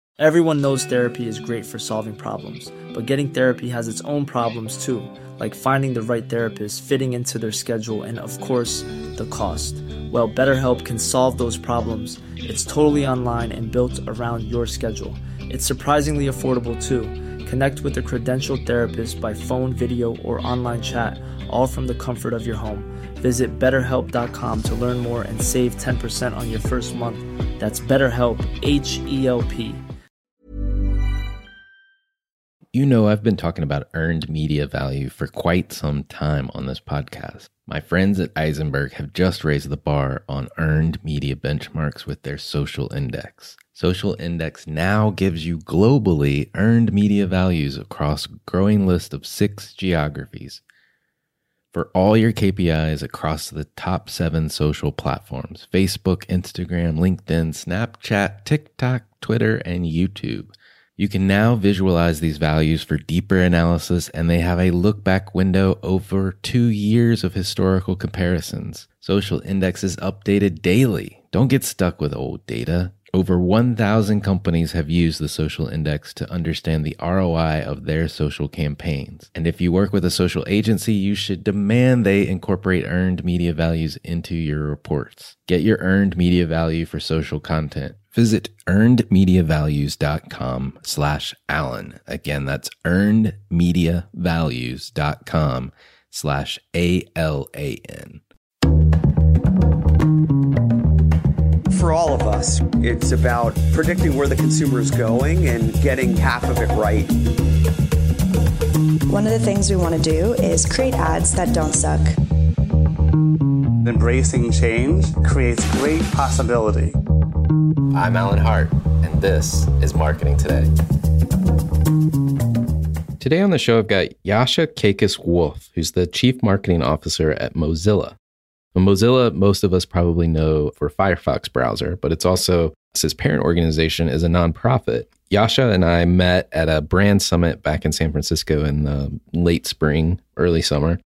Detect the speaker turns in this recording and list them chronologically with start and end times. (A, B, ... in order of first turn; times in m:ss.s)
0:00.2-0:29.8 A
0:32.7-0:50.6 B
0:51.7-1:38.2 B
1:41.7-1:47.2 C
1:49.1-1:52.1 D
1:53.8-1:57.0 E
1:57.9-2:00.7 B
2:03.2-2:08.2 B
2:08.8-2:21.0 B